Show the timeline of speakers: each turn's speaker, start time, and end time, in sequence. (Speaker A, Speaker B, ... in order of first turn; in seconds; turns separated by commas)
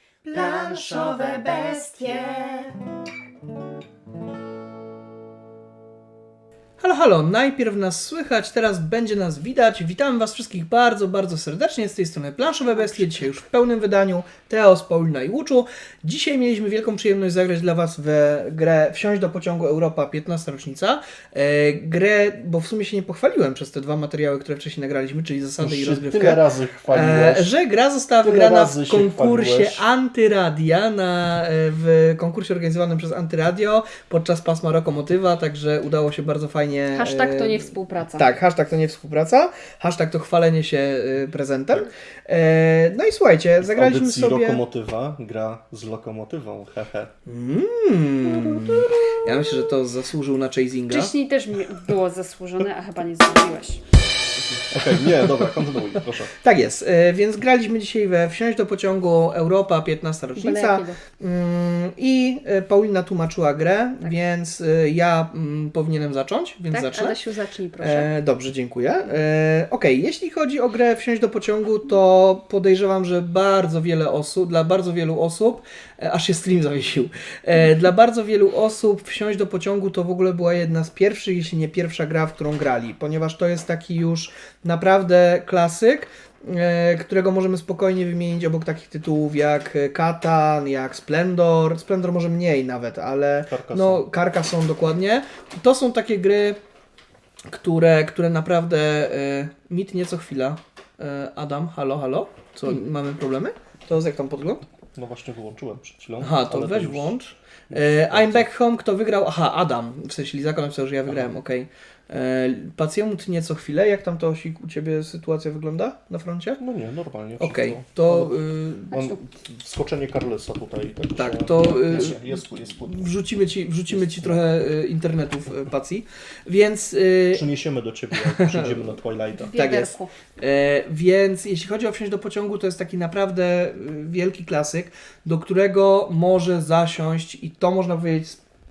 Speaker A: 0.2-2.7, Speaker A: 6.8-44.6, Speaker B: 25.6-27.5, Speaker B: 28.2-29.8, Speaker C: 36.9-38.3, Speaker B: 43.6-47.1, Speaker A: 47.2-51.1, Speaker C: 50.9-53.8, Speaker B: 54.7-56.3, Speaker A: 56.4-67.2, Speaker C: 60.4-61.0, Speaker C: 66.7-68.1, Speaker A: 67.8-96.6, Speaker B: 93.5-94.0, Speaker A: 97.5-104.6, Speaker B: 104.9-107.1, Speaker A: 106.2-116.6, Speaker B: 107.7-108.5, Speaker B: 116.6-118.3, Speaker A: 117.4-118.9, Speaker B: 118.9-123.0, Speaker C: 118.9-119.2, Speaker A: 121.2-122.3, Speaker A: 122.8-127.4, Speaker B: 123.9-124.4, Speaker B: 127.3-129.5, Speaker A: 128.2-128.8, Speaker C: 129.4-130.1, Speaker A: 129.6-138.4